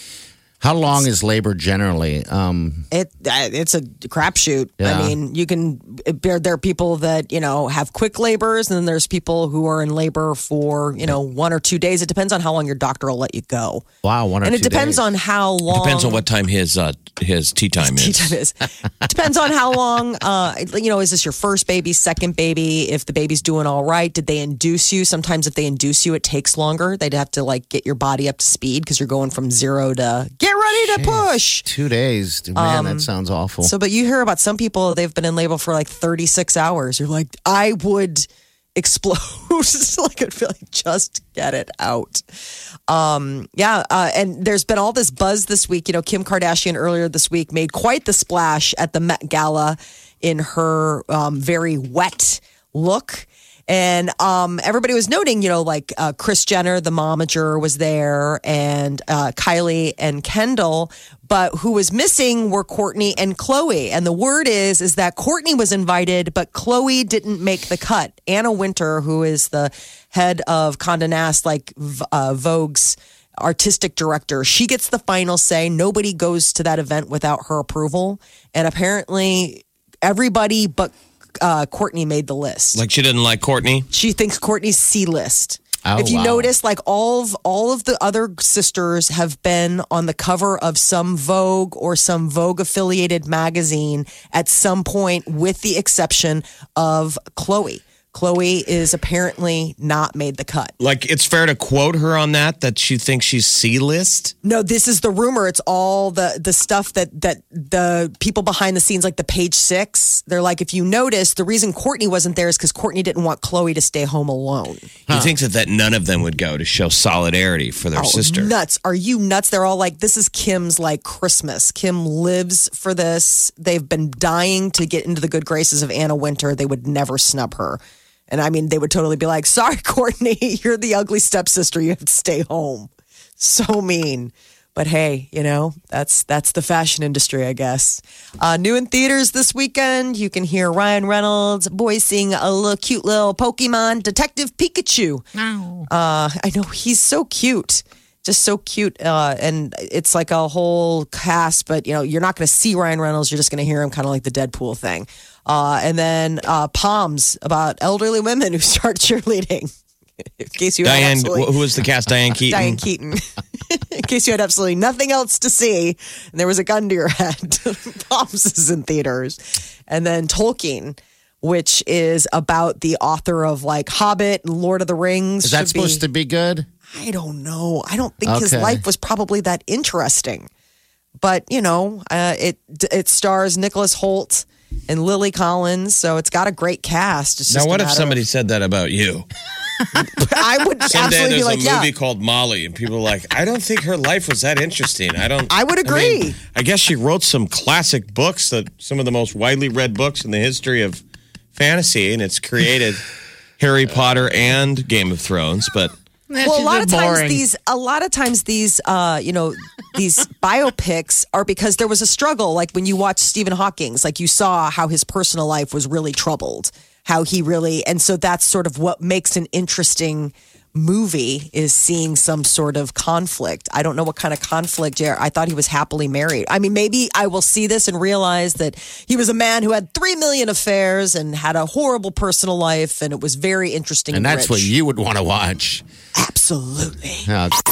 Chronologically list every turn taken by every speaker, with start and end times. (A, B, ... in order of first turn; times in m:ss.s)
0:00.6-0:02.9 A
0:02.9-0:13.9 B
0:04.8-0:05.2 A
0:14.0-0:15.0 A
0:14.4-0:16.2 B
0:15.7-0:18.3 C
0:17.8-0:31.7 B
0:30.8-0:33.7 A
0:32.6-0:33.1 B
0:33.6-0:42.2 B
0:42.9-1:22.8 B
1:22.8-1:23.9 C
1:23.9-1:40.7 B
1:25.9-1:26.5 A
1:40.8-1:44.3 C
1:44.4-1:54.9 B
1:55.1-1:58.5 C
1:55.1-1:55.3 A
1:58.0-2:25.3 B
2:25.4-2:25.9 A
2:25.9-2:39.7 B
2:40.4-2:41.6 B
2:40.8-2:42.8 C
2:42.5-2:56.0 B
2:55.4-2:56.7 A
2:56.9-3:00.5 B
2:58.2-2:58.8 A
3:01.2-3:08.2 B
3:07.5-3:09.3 C
3:10.0-3:11.9 B
3:10.9-3:21.0 C
3:15.5-3:16.4 B
3:21.6-3:23.0 C
3:23.6-3:26.0 C
3:26.3-3:27.4 A
3:26.4-3:54.7 B
3:54.1-3:55.8 A
3:56.2-3:57.3 B
3:57.2-3:57.6 A